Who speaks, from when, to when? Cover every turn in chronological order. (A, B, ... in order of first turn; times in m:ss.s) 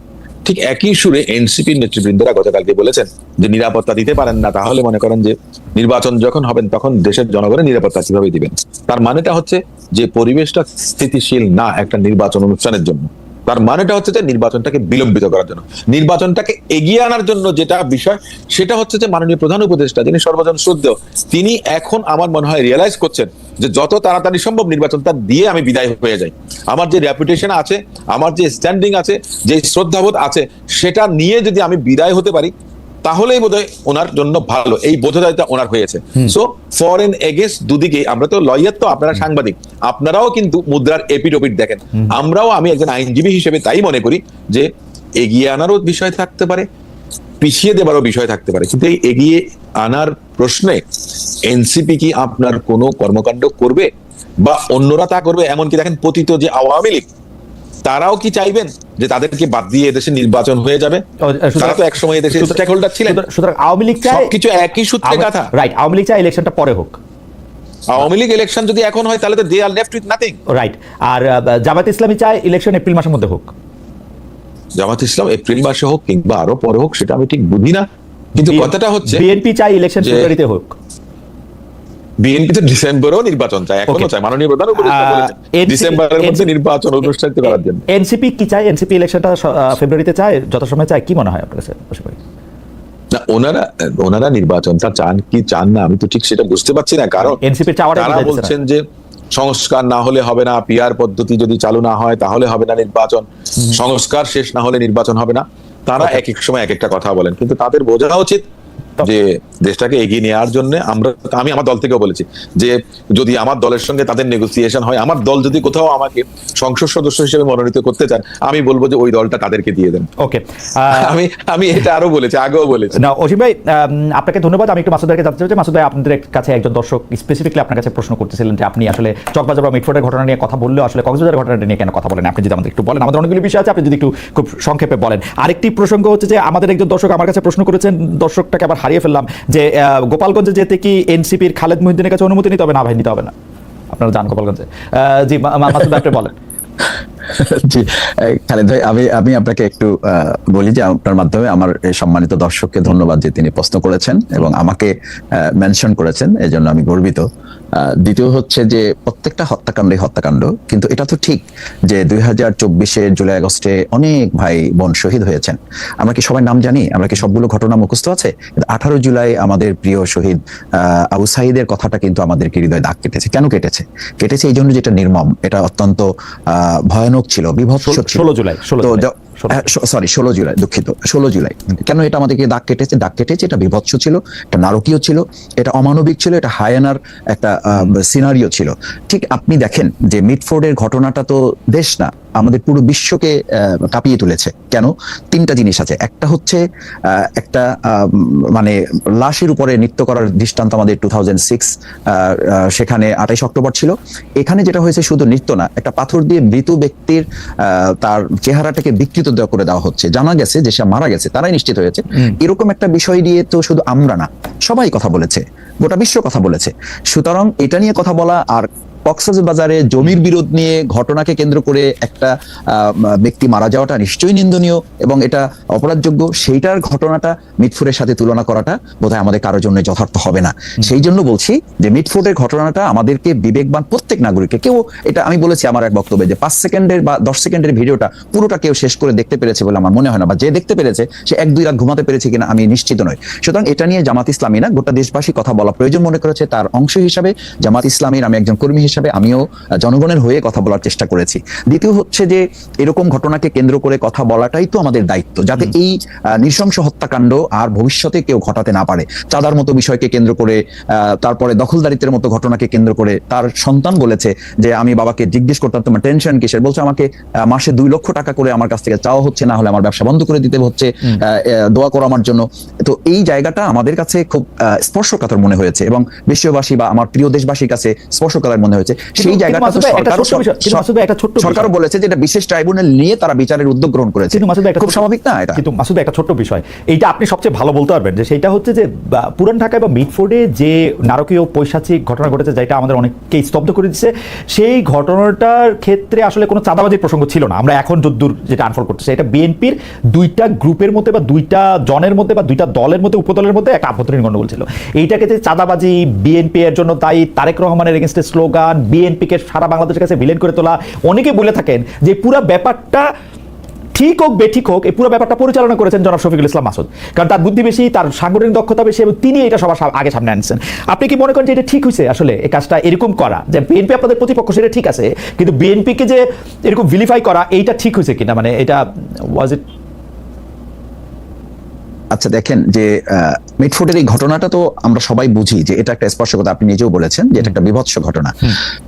0:00.4-0:32.5 A
0:33.0-0:46.6 A
0:47.4-0:50.8 A
0:51.5-0:53.9 A
0:54.4-0:57.1 A
0:57.8-1:01.0 A
1:01.2-1:04.3 B
1:01.6-1:03.2 A
1:04.0-1:05.5 A
1:05.0-1:07.0 B
1:07.9-1:10.4 A
1:10.5-1:13.5 B
1:14.8-1:17.8 A
1:18.4-1:19.2 A
1:18.4-1:20.8 B
1:20.0-1:20.3 A
1:22.2-1:27.8 A
1:24.7-1:26.5 B
1:27.4-1:32.2 B
1:33.1-1:37.4 A
1:37.2-1:38.5 B
1:37.9-1:38.8 A
1:39.4-1:48.4 A
1:49.0-2:00.1 A
2:00.2-2:01.1 B
2:00.9-2:03.0 A
2:03.0-2:23.3 B
2:23.9-2:26.3 B
2:27.3-2:37.2 C
2:37.8-2:58.3 C
2:57.8-2:59.6 B
2:58.8-4:40.8 C
4:39.2-4:41.7 B
4:41.4-4:45.6 C
4:44.3-4:45.0 B
4:45.5-5:13.0 B
5:13.9-5:28.8 B
5:29.3-5:29.6 B
5:32.1-5:38.3 C